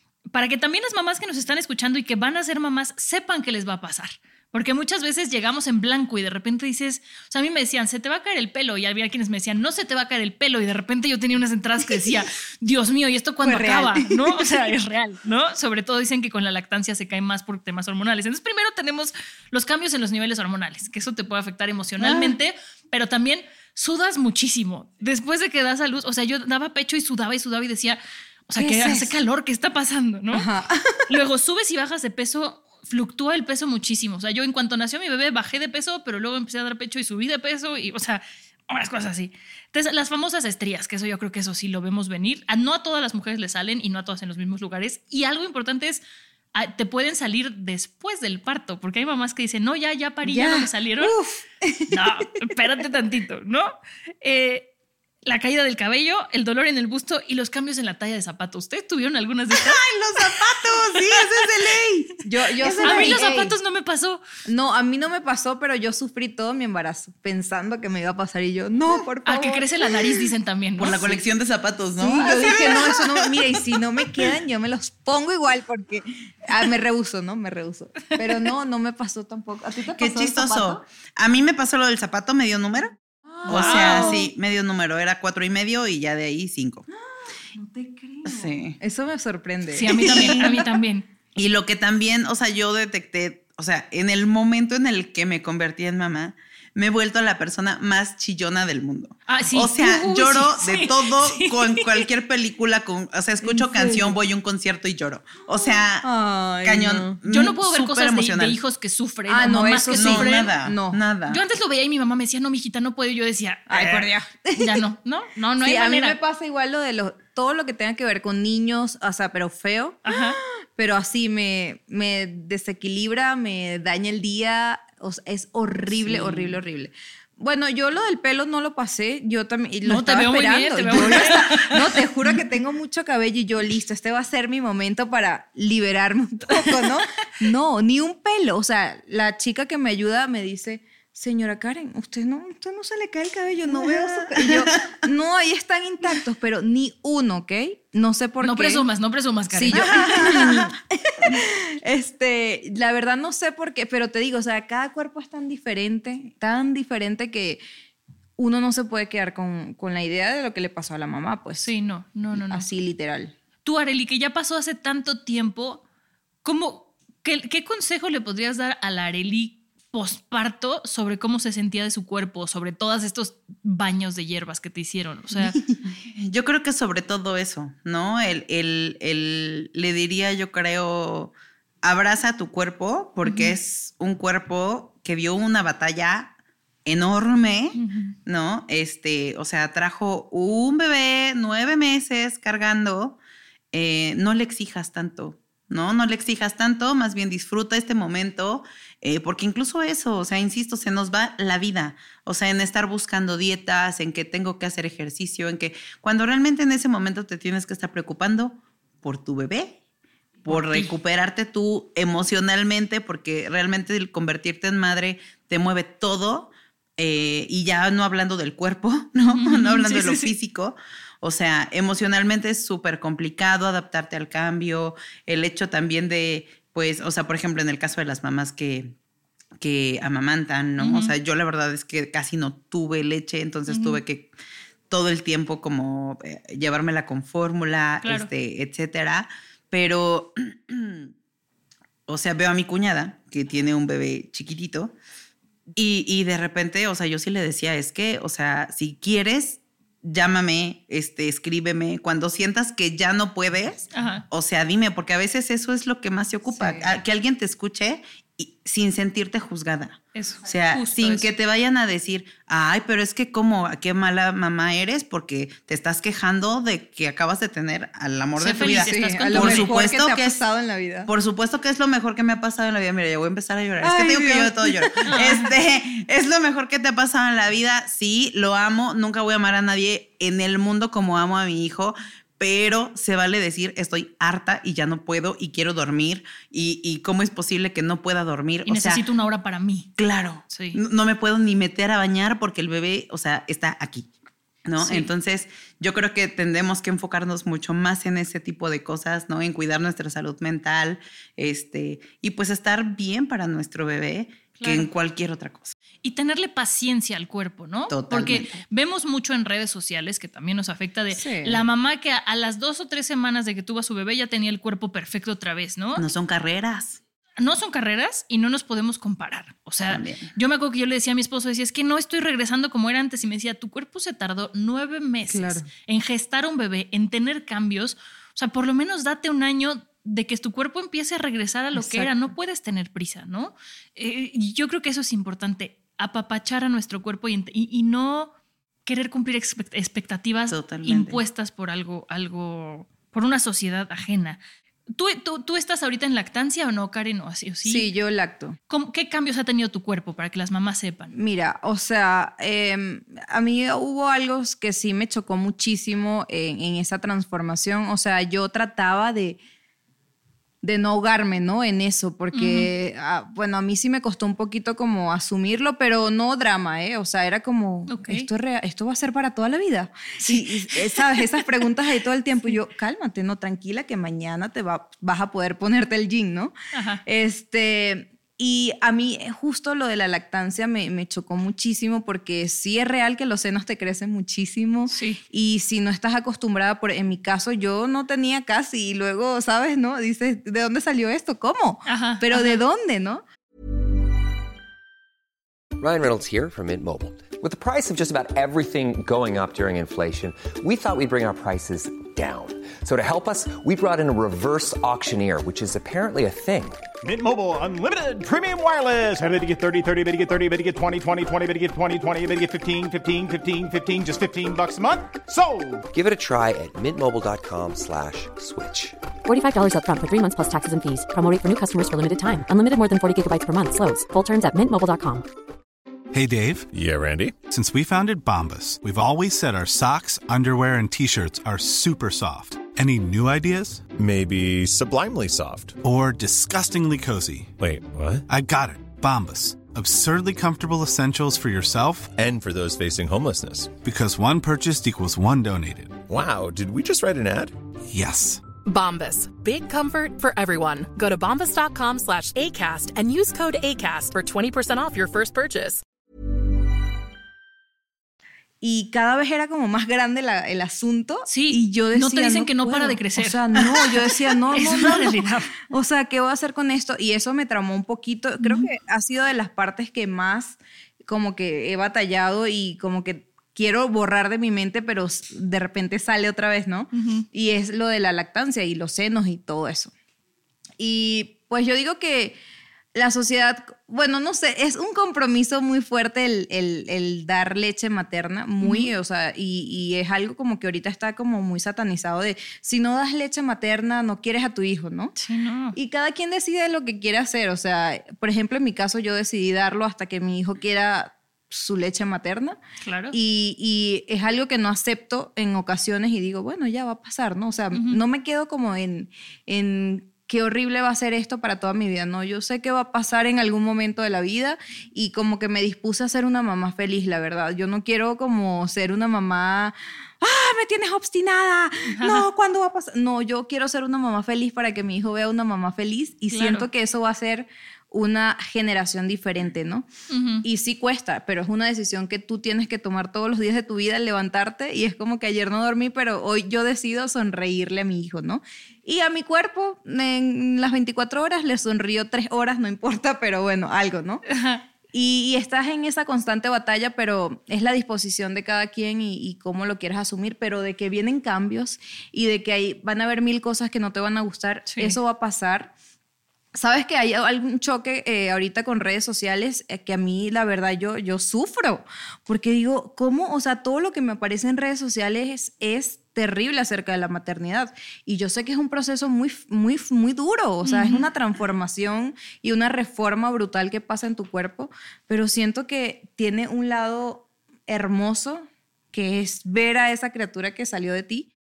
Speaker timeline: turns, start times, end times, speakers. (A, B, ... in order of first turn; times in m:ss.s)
0:00.3-0:30.4 A
0:13.4-0:14.6 B
0:28.6-0:29.1 B
0:30.3-0:31.0 B
0:31.1-0:46.0 A
0:46.5-0:51.1 A
0:50.2-0:52.0 B
0:51.9-0:54.7 A
0:55.2-1:00.4 A
0:59.6-1:03.2 C
1:02.2-1:03.5 B
1:02.8-1:04.2 A
1:04.4-1:09.7 B
1:09.2-1:11.0 A
1:10.8-1:13.3 C
1:10.9-1:11.2 B
1:12.0-1:20.8 B
1:20.0-1:22.9 C
1:23.3-1:24.3 B
1:23.4-1:26.9 C
1:23.5-1:24.2 A
1:26.9-1:30.6 B
1:28.2-1:28.8 C
1:29.7-1:31.0 A
1:30.1-1:30.4 C
1:31.4-1:46.1 C
1:39.3-1:41.9 A
1:43.4-1:44.2 B
1:45.6-1:47.1 B
1:46.6-1:48.6 C
1:47.3-1:50.5 A
1:49.3-1:51.0 B
1:50.0-1:51.4 C
1:51.3-1:56.2 A
1:53.7-1:54.8 B
1:55.6-2:00.1 B
2:00.0-2:00.4 A
2:00.8-2:28.8 B
2:06.0-2:06.6 A
2:09.8-2:11.9 A
2:23.7-2:24.7 C
2:28.4-2:30.4 A
2:29.5-2:37.6 B
2:29.7-2:30.6 C
2:38.4-2:41.7 B
2:41.6-2:42.7 A
2:42.5-2:43.3 B
2:43.6-2:45.8 A
2:46.4-2:55.6 A
2:56.1-3:06.3 C
3:03.2-3:03.5 A
3:06.8-3:13.2 C
3:07.8-3:08.1 A
3:13.7-3:29.8 C
3:30.4-3:48.9 C
3:30.5-3:30.9 A
3:39.3-3:40.3 A
3:49.6-3:54.3 C
3:50.8-3:51.1 A
3:53.7-3:54.0 A
3:54.9-4:01.1 C
3:58.0-3:58.3 A
4:02.1-4:04.9 C
4:05.8-4:30.4 C
4:13.9-4:14.2 A
4:16.5-4:16.9 B
4:20.1-4:21.3 A
4:28.4-4:29.7 A
4:28.6-4:31.1 B
4:31.0-4:49.0 C
4:33.8-4:35.0 B
4:35.0-4:35.5 A
4:48.6-4:49.9 A
4:50.0-4:54.1 C
4:50.5-4:50.8 A
4:54.6-5:05.7 C
4:54.8-4:55.1 A
5:04.6-5:04.9 A
5:06.0-5:16.0 A
5:07.9-5:08.6 C
5:11.1-5:11.6 B
5:16.0-5:17.0 C
5:17.4-5:38.3 A
5:19.9-5:20.3 C
5:25.3-5:25.7 B
5:31.8-5:32.3 B
5:38.8-5:44.4 A
5:40.5-5:41.2 C
5:45.0-5:47.9 A
5:47.6-5:48.6 B
5:48.7-5:51.1 A
5:51.1-5:59.4 B
6:00.6-6:16.5 B
6:02.3-6:02.7 A
6:07.9-6:08.3 A
6:10.2-6:11.1 A
6:16.7-6:17.0 A
6:17.0-6:33.2 B
6:24.9-6:25.2 A
6:31.8-6:32.6 A
6:35.8-6:46.8 D
6:47.0-6:55.8 E
6:55.9-6:59.0 D
6:59.2-7:05.2 F
7:06.1-7:06.7 G
7:06.7-7:07.3 H
7:07.5-7:13.8 G
7:13.9-7:15.8 H
7:15.8-7:17.5 G
7:17.6-7:18.2 H
7:18.3-7:22.1 G
7:22.1-7:23.8 H
7:23.7-7:26.0 G
7:26.1-7:27.5 H
7:27.9-7:28.4 G
7:28.6-7:35.8 I
7:38.6-7:59.9 B
7:41.2-7:43.4 A
7:44.5-7:45.5 A
7:48.4-7:48.7 A
7:56.9-7:57.2 A
8:00.8-8:02.4 B
8:02.9-8:15.1 B
8:08.6-8:08.9 A
8:15.2-8:15.7 A
8:15.7-8:22.6 B
8:22.8-8:23.2 A
8:23.1-8:49.8 B
8:27.7-8:28.0 A
8:41.9-8:42.2 A
8:46.3-8:46.7 A
8:50.1-8:50.4 A
8:50.4-9:04.2 B
9:04.3-9:04.6 A
9:04.9-9:15.7 B
9:14.7-9:15.0 A
9:16.5-9:41.3 B
9:30.6-9:31.0 A